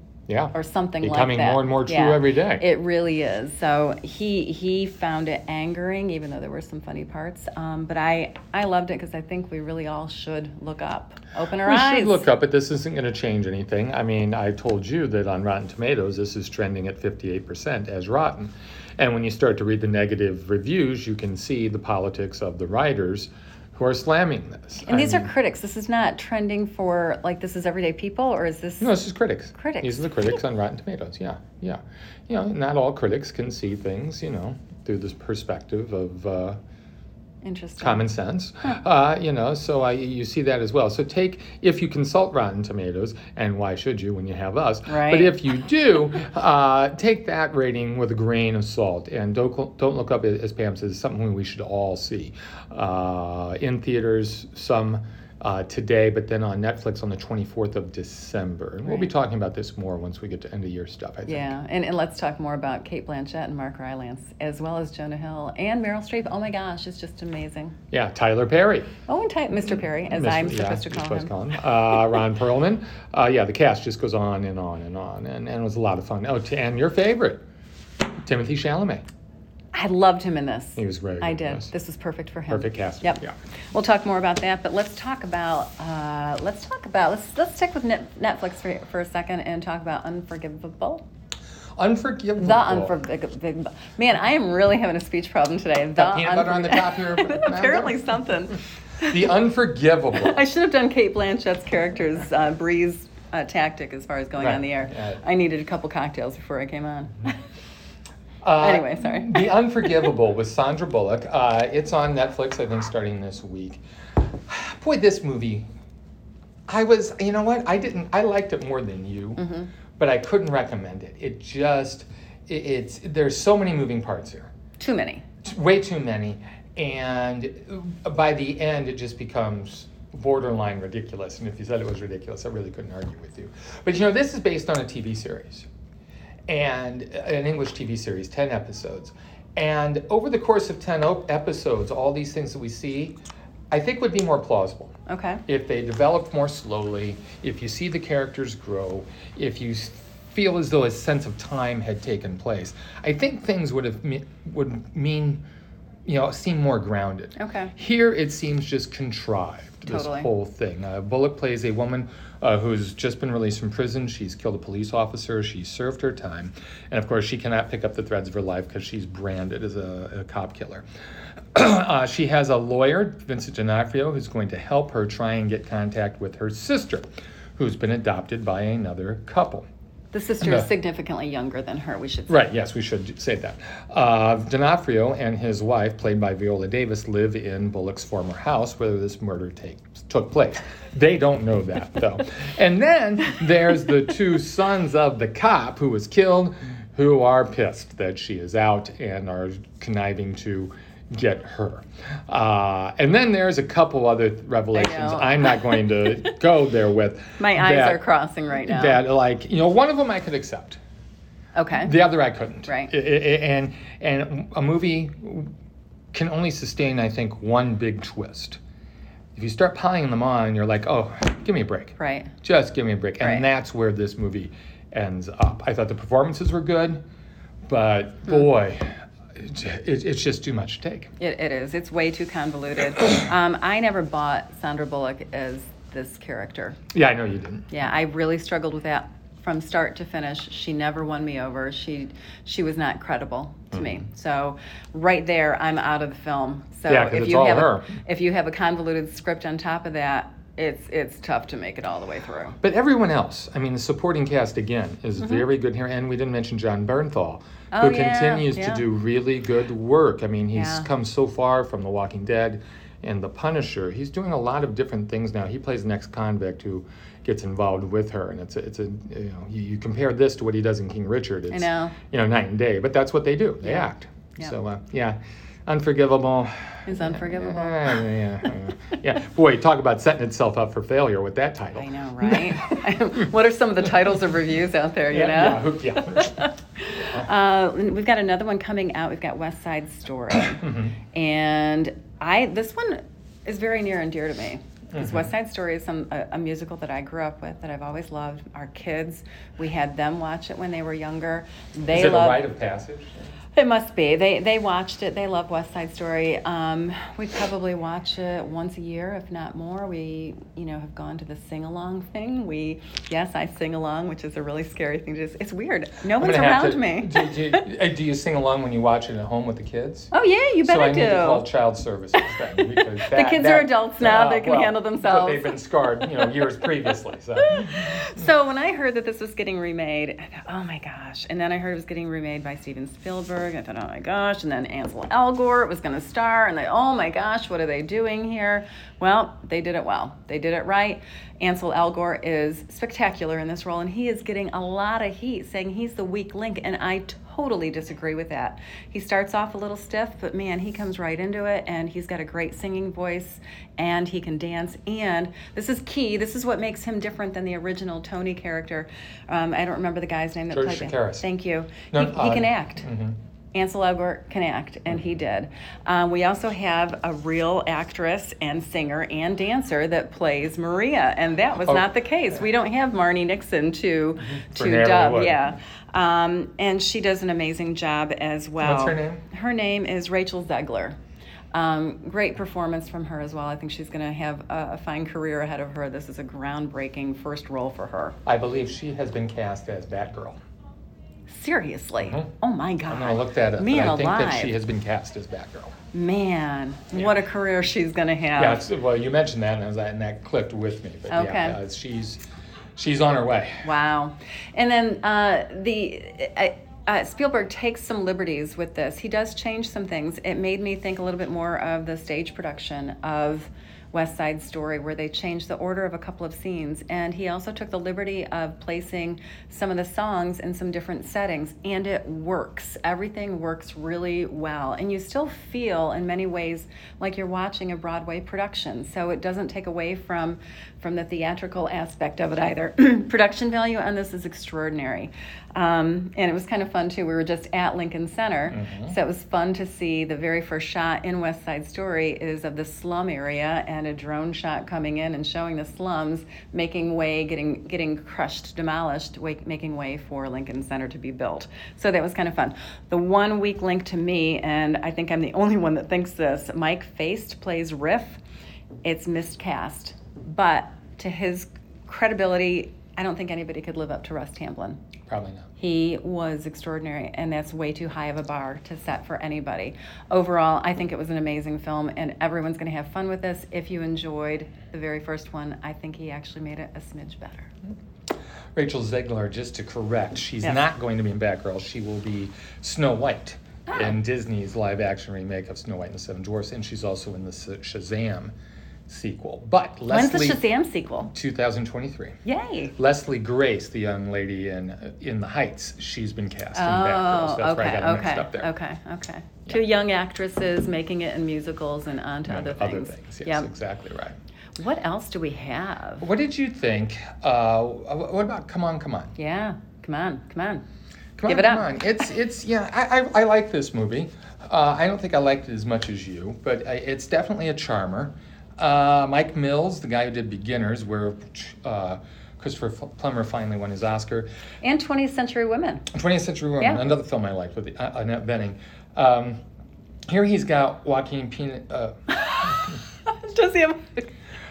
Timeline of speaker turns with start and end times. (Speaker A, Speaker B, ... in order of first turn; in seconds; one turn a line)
Speaker A: 0.3-2.6
Speaker B: 0.5-12.3
Speaker A: 11.6-25.3
Speaker B: 24.8-28.9
Speaker A: 28.8-36.6
Speaker B: 29.5-30.1
Speaker B: 37.4-38.1
Speaker A: 37.8-61.5
Speaker B: 44.9-45.4
Speaker B: 61.3-67.8
Speaker A: 67.9-68.9
Speaker B: 69.1-71.3
Speaker A: 70.1-77.4
Speaker A: 78.2-79.0
Speaker B: 79.7-91.0
Speaker A: 80.8-81.7
Speaker A: 82.5-83.3
Speaker A: 91.8-93.0
Speaker B: 92.4-98.6
Speaker A: 96.0-98.0
Speaker A: 99.1-100.4
Speaker B: 100.2-107.4
Speaker A: 104.4-105.2
Speaker A: 108.4-113.8
Speaker B: 108.6-109.5
Speaker A: 114.5-115.6
Speaker A: 116.7-119.4
Speaker B: 119.4-119.7
Speaker A: 120.0-124.5
Speaker B: 124.8-125.2
Speaker A: 125.4-135.7
Speaker A: 136.5-143.2
Speaker A: 143.7-144.9
Speaker B: 145.1-145.4
Speaker A: 145.5-155.4
Speaker A: 156.1-170.8
Speaker B: 157.4-157.7
Speaker B: 159.8-160.3
Speaker A: 171.5-177.0
Speaker A: 177.6-179.7
Speaker B: 180.1-182.4
Speaker A: 180.4-180.7
Speaker A: 182.3-208.0
Speaker B: 204.7-206.3
Speaker B: 207.4-209.0
Speaker A: 208.6-210.8
Speaker B: 211.5-211.9
Speaker A: 211.8-215.5
Speaker A: 216.1-218.6
Speaker A: 219.3-227.0
Speaker B: 222.0-222.3
Speaker B: 223.2-223.4
Speaker A: 227.7-231.1
Speaker B: 231.2-236.8
Speaker A: 236.9-237.7
Speaker B: 237.7-252.6
Speaker A: 246.9-247.9
Speaker A: 252.6-282.5
Speaker B: 257.7-258.8
Speaker B: 260.5-260.9
Speaker B: 271.5-271.9
Speaker B: 273.6-274.5
Speaker B: 276.9-278.0
Speaker B: 281.8-302.4
Speaker A: 285.1-286.4
Speaker A: 290.6-290.9
Speaker A: 294.9-295.2
Speaker A: 301.9-303.3
Speaker B: 303.6-317.6
Speaker A: 316.2-320.1
Speaker B: 320.1-321.5
Speaker A: 320.6-328.0
Speaker B: 322.2-326.4
Speaker B: 327.4-362.9
Speaker A: 360.5-361.2
Speaker A: 361.9-363.2
Speaker B: 363.5-380.9
Speaker A: 374.5-375.4
Speaker A: 378.6-379.2
Speaker B: 381.5-388.2
Speaker A: 388.2-390.4
Speaker B: 391.3-394.5
Speaker A: 392.9-395.7
Speaker B: 395.9-398.6
Speaker A: 398.4-402.2
Speaker B: 401.1-401.6
Speaker A: 402.8-403.6
Speaker B: 403.6-458.2
Speaker A: 438.5-438.9
Speaker B: 458.8-464.8
Speaker A: 465.1-465.5
Speaker B: 465.6-477.5
Speaker A: 478.5-488.3
Speaker B: 483.7-483.9
Speaker A: 488.9-490.4
Speaker B: 489.9-491.1
Speaker A: 491.1-492.1
Speaker B: 492.2-492.7
Speaker A: 492.8-498.5
Speaker B: 496.5-503.5
Speaker A: 502.2-504.2
Speaker B: 504.6-506.1
Speaker A: 506.0-509.1
Speaker B: 509.1-510.6
Speaker A: 511.2-524.3
Speaker B: 511.2-511.8
Speaker B: 524.6-525.9
Speaker A: 525.9-529.4
Speaker B: 526.6-526.9
Speaker A: 530.1-531.9
Speaker B: 532.1-534.1